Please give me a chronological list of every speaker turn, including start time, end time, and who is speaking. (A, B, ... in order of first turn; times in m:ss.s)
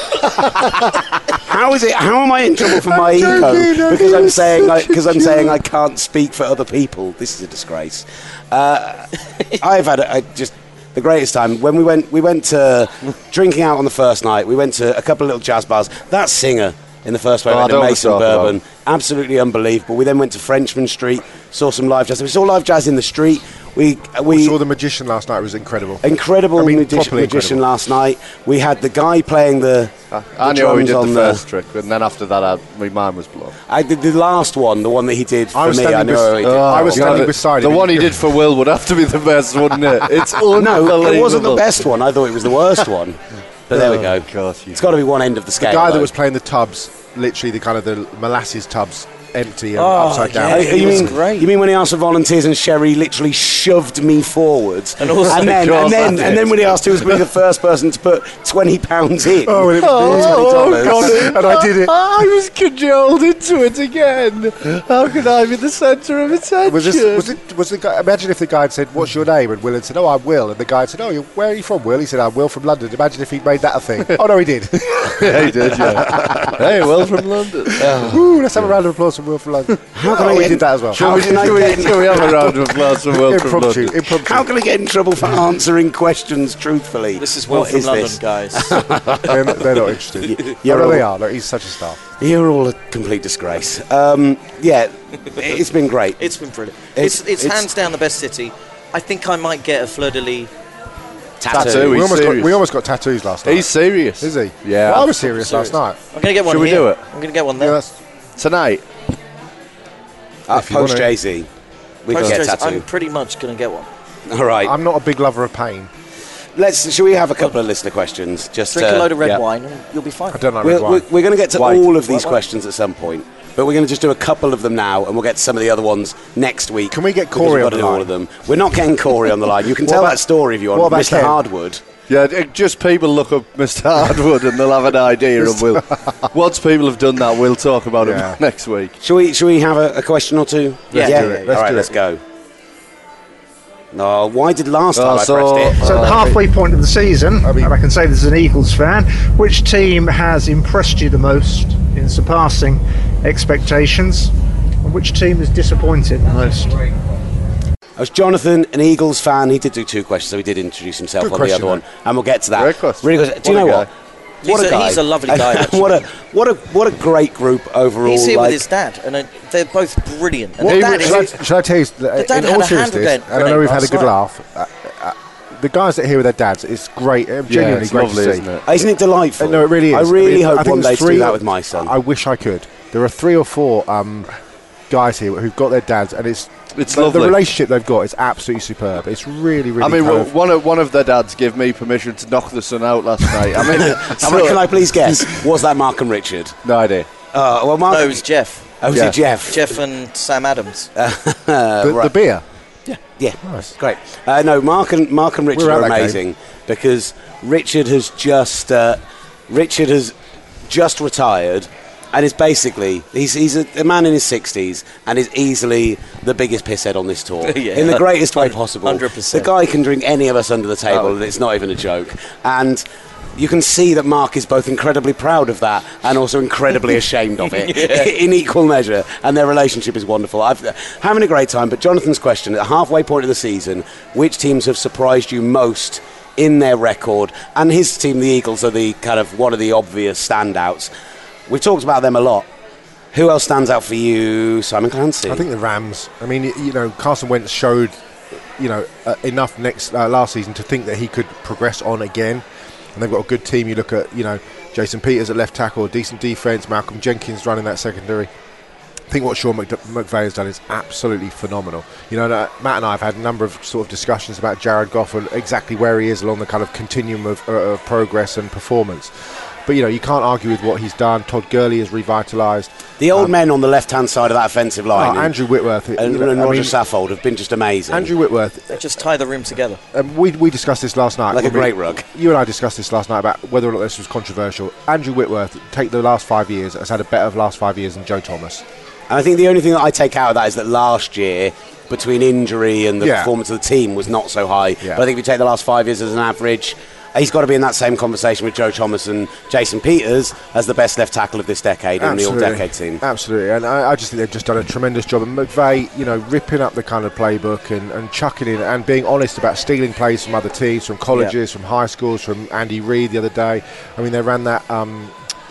0:01.4-0:24.6 A
0:02.8-0:05.5 B
0:17.5-0:18.5 C
0:24.3-0:27.6 B
0:26.0-0:31.4 A
0:30.1-0:33.5 C
0:33.7-0:37.3 A
0:35.5-0:38.2 B
0:36.4-0:41.7 C
0:40.5-0:46.1 A
0:43.7-0:44.8 C
0:45.6-0:51.1 B
0:49.8-0:51.5 D
0:50.4-1:01.2 A
0:55.0-0:56.0 D
0:55.2-0:57.2 C
0:59.4-1:01.9 B
0:59.8-1:07.3 C
1:06.6-1:16.6 B
1:15.1-1:18.2 C
1:17.7-1:21.7 B
1:19.9-1:22.6 A
1:20.9-1:24.0 C
1:23.0-1:24.5 B
1:24.1-1:31.0 A
1:27.2-1:28.8 D
1:29.2-1:32.0 B
1:32.2-1:36.2 A
1:36.2-1:40.5 D
1:37.0-1:37.7 A
1:41.4-1:42.1 A
1:41.5-1:42.5 C
1:41.6-1:46.0 B
1:43.4-1:45.2 C
1:45.4-1:47.8 D
1:46.4-1:47.0 C
1:47.6-1:47.9 B
1:48.4-1:48.8 C
1:50.5-1:51.5 A
1:50.5-1:51.1 B
1:52.0-1:52.8 A
1:52.1-1:53.9 D
1:54.3-1:54.7 A
1:54.6-1:55.9 B
1:56.6-1:59.4 A
1:58.7-2:00.4 D
2:00.3-2:01.0 B
2:00.6-2:11.8 A
2:06.9-2:08.1 B
2:09.8-2:10.2 B
2:10.7-2:11.4 B
2:12.1-2:18.9 C
2:15.4-2:16.2 B
2:18.0-2:18.4 B
2:19.0-2:22.2 A
2:20.9-2:21.6 D
2:20.9-2:21.9 B
2:23.9-2:26.2 A
2:24.9-2:26.3 C
2:25.8-2:36.9 E
2:27.4-2:27.7 B
2:38.0-2:43.9 A
2:41.2-2:41.8 B
2:42.5-2:43.9 C
2:44.4-2:46.0 D
2:44.4-2:48.6 A
2:48.0-2:51.3 D
2:50.6-2:58.4 B
2:50.6-2:51.3 C
2:52.2-2:54.1 D
2:57.5-2:58.6 C
2:58.6-3:01.9 A
2:59.4-3:04.3 B
3:04.9-3:10.3 B
3:06.7-3:07.4 C
3:09.8-3:14.6 C
3:13.7-3:16.6 A
3:16.6-3:17.1 C
3:17.3-3:18.2 A
3:17.9-3:18.6 D
3:18.8-3:19.7 A
3:18.9-3:19.2 C
3:19.4-3:20.9 D
3:21.0-3:22.1 A
3:21.8-3:22.4 B
3:23.2-3:30.1 A
3:23.4-3:23.7 B
3:25.5-3:26.2 B
3:30.7-3:42.8 A
3:37.4-3:39.5 D
3:43.4-4:00.9 A
3:47.5-3:48.1 D
4:01.5-4:02.5 A
4:03.1-4:05.4 A
4:05.3-4:07.9 B
4:08.6-4:12.4 B
4:12.9-4:18.3 B
4:19.1-4:29.1 B
4:29.6-4:33.3 B
4:33.0-4:35.3 A
4:34.9-4:36.7 B
4:36.0-4:38.1 A
4:37.9-4:38.8 B
4:38.7-4:39.8 D
4:39.9-4:48.6 B
4:41.3-4:42.0 A
4:49.1-5:03.0 A
4:53.0-4:53.3 B
5:02.0-5:15.1 B